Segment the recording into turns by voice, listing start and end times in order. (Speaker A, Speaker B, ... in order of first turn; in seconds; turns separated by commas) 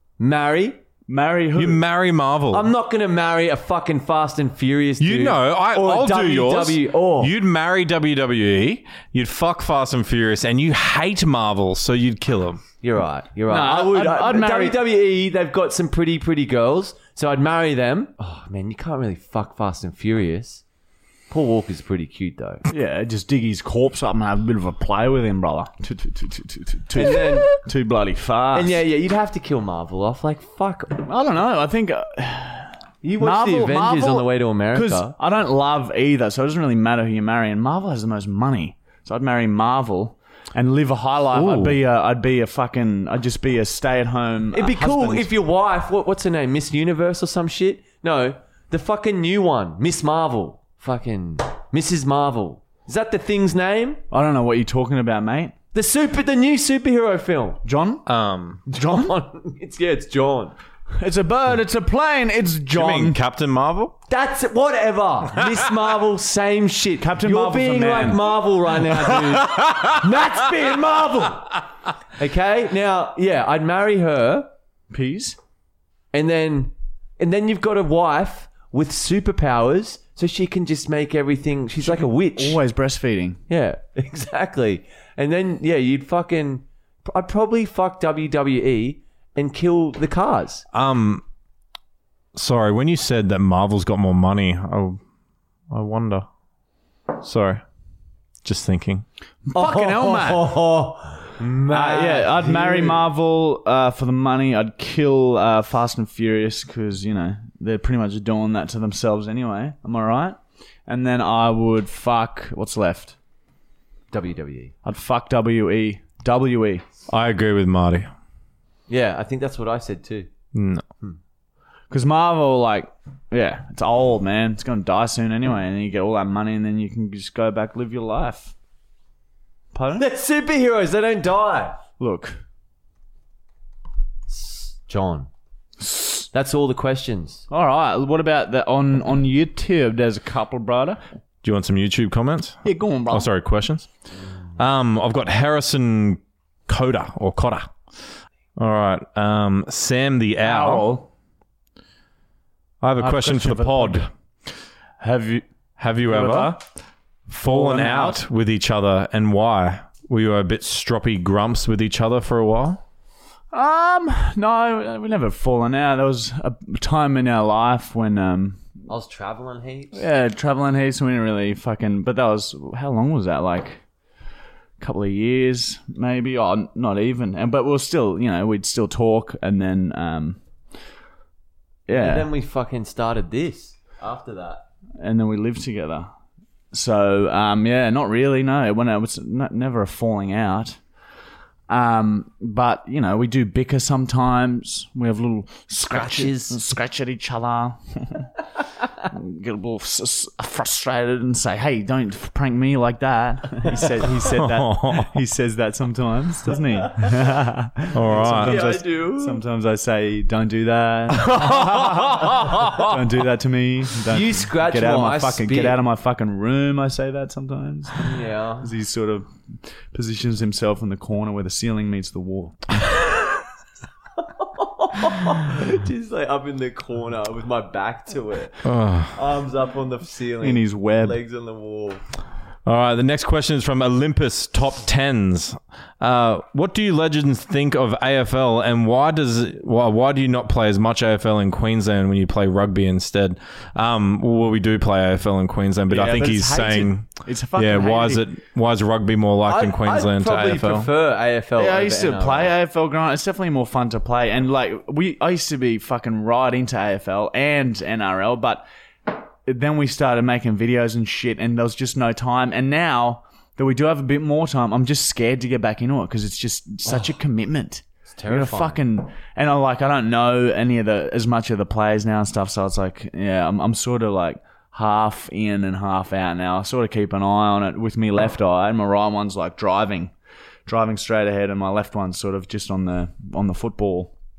Speaker A: 0.2-0.8, Speaker B: 1.1-1.8, Speaker C: 1.6-2.7, Speaker A: 2.5-7.3, Speaker C: 5.0-12.6, Speaker A: 12.8-20.6, Speaker B: 13.5-14.8, Speaker A: 21.3-22.6, Speaker B: 22.7-28.8, Speaker A: 26.9-27.6, Speaker A: 28.5-31.0, Speaker B: 31.0-45.3, Speaker A: 33.0-35.1, Speaker C: 41.3-41.8, Speaker A: 44.5-54.0, Speaker B: 54.1-55.5, Speaker A: 55.7-57.6, Speaker B: 57.6-58.0, Speaker C: 58.0-58.6, Speaker B: 58.7-59.1, Speaker A: 58.7-60.5, Speaker B: 61.0-63.2, Speaker C: 62.7-63.9, Speaker A: 64.1-71.6, Speaker B: 67.0-68.2, Speaker C: 69.2-70.1, Speaker A: 72.2-74.5, Speaker B: 74.9-75.4, Speaker A: 76.1-82.6, Speaker B: 81.8-83.4, Speaker A: 83.5-90.6, Speaker C: 90.7-91.2, Speaker C: 92.3-95.0, Speaker C: 95.7-96.3, Speaker C: 97.2-97.6, Speaker C: 98.4-99.0, Speaker B: 99.5-100.5, Speaker A: 99.5-103.0, Speaker B: 101.7-113.2, Speaker A: 114.1-114.7, Speaker B: 114.8-116.8, Speaker C: 117.1-118.1, Speaker A: 118.9-120.3, Speaker C: 120.5-120.8, Speaker B: 121.9-128.5, Speaker B: 129.7-130.1, Speaker A: 129.9-131.8, Speaker B: 132.0-132.4, Speaker A: 134.3-135.3, Speaker B: 135.8-136.3, Speaker A: 136.3-137.4, Speaker B: 137.5-141.0, Speaker C: 141.4-143.9, Speaker B: 142.6-143.3, Speaker C: 144.6-147.7, Speaker C: 148.6-150.9, Speaker B: 150.4-151.1, Speaker C: 152.8-154.1, Speaker B: 153.0-154.1, Speaker B: 155.0-155.4, Speaker C: 155.8-156.6, Speaker B: 156.0-156.6, Speaker C: 157.3-162.8, Speaker B: 157.4-158.2, Speaker B: 163.5-168.6, Speaker A: 168.9-170.0, Speaker B: 169.9-173.8, Speaker B: 174.8-180.4, Speaker B: 181.9-182.3, Speaker A: 181.9-184.7, Speaker B: 185.0-186.1, Speaker B: 186.7-190.8, Speaker B: 191.7-198.3, Speaker A: 195.9-196.6, Speaker B: 199.0-222.7, Speaker C: 204.2-205.2, Speaker C: 207.9-208.6, Speaker A: 208.2-209.4, Speaker C: 211.2-212.9, Speaker A: 214.1-215.8, Speaker A: 218.0-218.7, Speaker A: 224.2-232.0, Speaker C: 228.6-229.2, Speaker B: 230.4-231.2, Speaker C: 232.7-250.9, Speaker B: 245.9-248.3, Speaker A: 249.4-252.5, Speaker B: 251.6-280.1, Speaker A: 268.1-268.8, Speaker B: 280.7-284.1